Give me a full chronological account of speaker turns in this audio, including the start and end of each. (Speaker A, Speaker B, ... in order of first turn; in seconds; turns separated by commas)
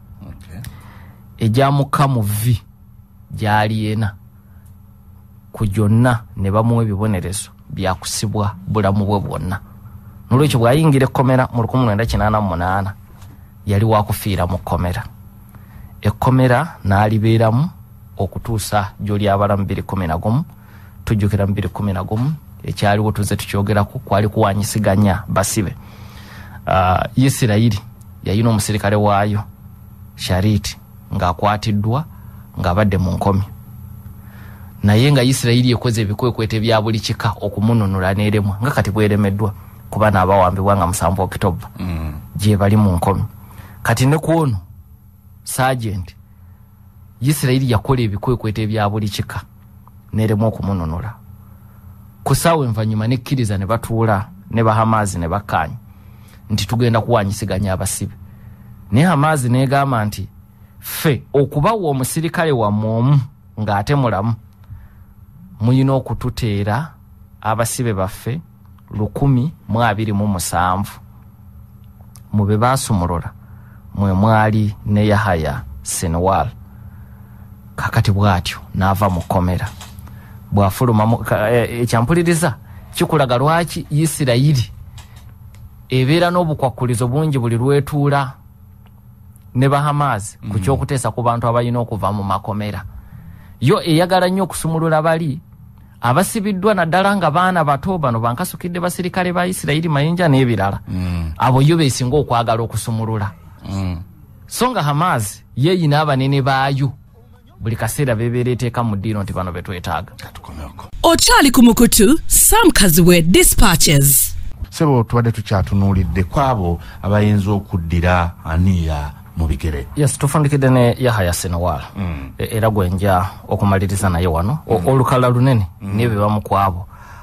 Speaker A: 0.3-0.6, Speaker B: 1.4-2.6, Speaker B: 3.3-4.1, Speaker B: 5.5-9.6, Speaker B: 10.3-12.9, Speaker B: 13.7-15.1, Speaker B: 16.0-20.4, Speaker B: 21.1-25.8, Speaker B: 26.7-29.4, Speaker B: 30.2-32.0, Speaker B: 32.6-33.5, Speaker B: 34.8-41.7, Speaker A: 41.8-42.2, Speaker B: 42.4-43.3, Speaker B: 43.8-44.6, Speaker B: 45.5-46.2, Speaker B: 47.2-49.4, Speaker B: 50.1-51.2, Speaker B: 52.2-55.8, Speaker B: 56.5-58.1, Speaker B: 58.9-60.3, Speaker B: 60.8-64.4, Speaker B: 65.6-71.0, Speaker B: 72.3-73.3, Speaker B: 73.9-76.5, Speaker B: 77.8-79.7, Speaker B: 80.5-84.7, Speaker B: 85.9-88.4, Speaker B: 89.5-92.8, Speaker A: 90.4-90.8, Speaker B: 93.6-95.4, Speaker B: 96.0-100.8, Speaker A: 101.0-101.3, Speaker B: 101.4-103.3, Speaker A: 103.7-104.0, Speaker B: 104.5-106.9, Speaker B: 107.6-110.1, Speaker A: 110.2-110.9, Speaker C: 111.0-114.3, Speaker A: 114.7-119.9, Speaker B: 120.0-126.9, Speaker A: 122.0-122.3, Speaker A: 125.8-126.1